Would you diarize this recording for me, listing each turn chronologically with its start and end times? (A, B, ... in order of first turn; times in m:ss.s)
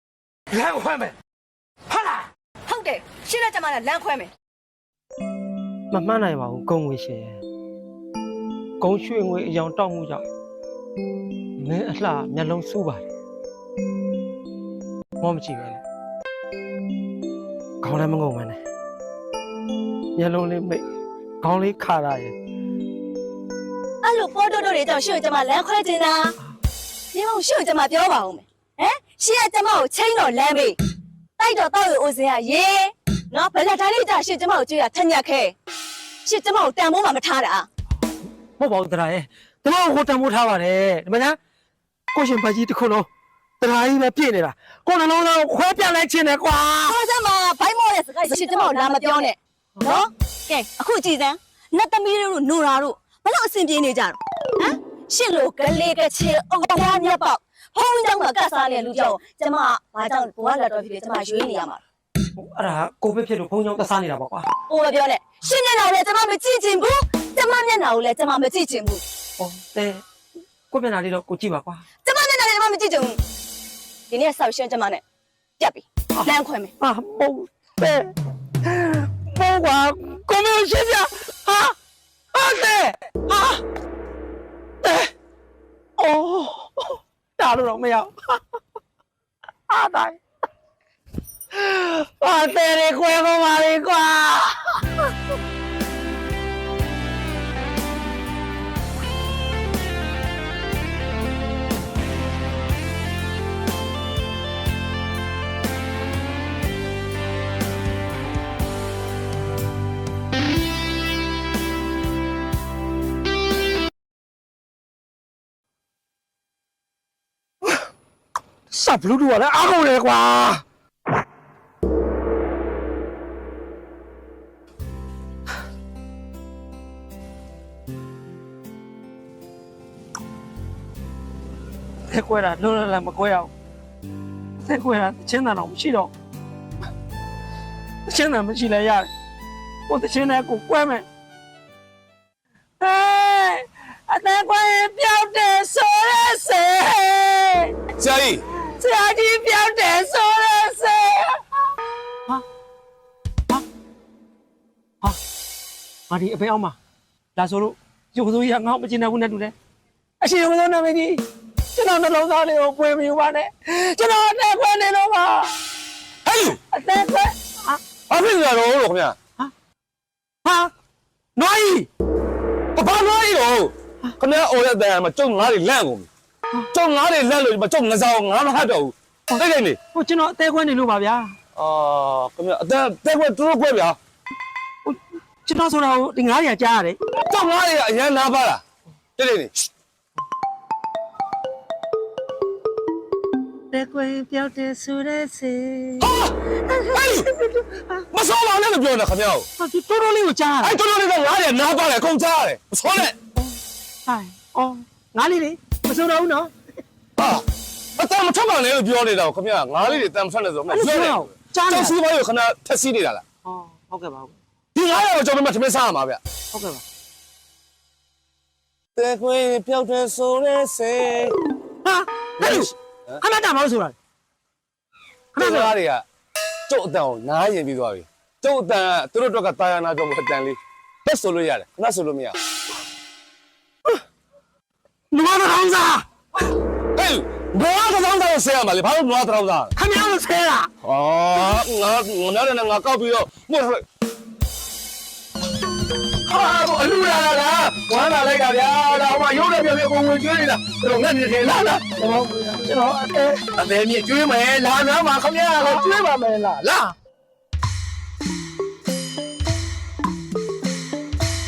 0:00.5-0:01.1 A
0:02.7-0:04.3 B
0:05.9-0:07.4 A
0:08.8-0:10.2 A
0:11.6-0:13.0 A
0:15.2-0:15.8 A
0:17.8-0:18.6 A
0:20.1-0:20.8 A
0:21.4-0:22.3 A
0:24.0-0:26.3 B
0:27.1-0:30.8 B
0:31.4-0:35.5 B
0:36.2-0:37.7 B
0:38.6-0:41.4 A
0:42.1-0:43.1 A
0:43.6-0:47.0 A
0:46.8-1:01.8 B
1:02.4-1:04.5 A
1:04.7-1:09.0 B
1:09.4-1:10.0 A
1:10.7-1:11.8 A
1:12.0-1:13.2 B
1:14.1-1:15.0 B
1:15.6-1:16.7 B
1:16.2-1:18.1 A
1:18.6-1:21.7 A
1:22.3-1:23.6 A
1:24.8-1:25.1 A
1:26.0-1:28.4 A
1:29.7-1:30.2 A
1:31.5-1:34.8 A
1:58.7-2:00.6 A
2:12.1-2:13.5 A
2:14.6-2:16.1 A
2:18.0-2:19.1 A
2:19.9-2:21.0 A
2:22.8-2:27.7 A
2:28.0-2:28.4 C
2:28.6-2:31.4 A
2:36.1-2:36.8 A
2:37.4-2:39.5 A
2:40.2-2:41.2 A
2:41.7-2:45.5 A
2:46.2-2:46.6 C
2:46.7-2:47.8 A
2:48.1-2:49.2 C
2:50.4-2:50.7 A
2:51.4-2:51.9 A
2:52.7-2:56.1 C
2:56.7-2:59.8 C
2:59.9-3:01.3 A
3:01.6-3:04.0 C
3:04.8-3:07.0 A
3:07.1-3:08.6 C
3:09.2-3:09.5 C
3:13.7-3:16.1 A
3:16.0-3:16.3 C
3:16.7-3:18.0 A
3:16.9-3:17.3 C
3:18.1-3:19.5 C
3:19.6-3:20.8 A
3:20.6-3:23.2 C
3:24.0-3:26.5 A
3:27.2-3:27.4 C
3:28.0-3:33.2 C
3:30.7-3:31.9 A
3:33.4-3:34.4 A
3:34.7-3:36.2 C
3:36.5-3:36.8 A
3:38.9-3:41.4 C
3:41.8-3:44.0 A
3:42.4-3:43.2 C
3:45.4-3:45.7 A
3:45.4-3:46.0 C
3:46.7-3:52.4 C
3:55.1-3:56.0 A
3:57.0-3:59.7 C
3:59.8-4:00.7 A
4:00.8-4:03.8 C
4:06.3-4:11.8 C
4:11.9-4:13.5 A
4:13.6-4:16.0 C
4:15.6-4:16.6 A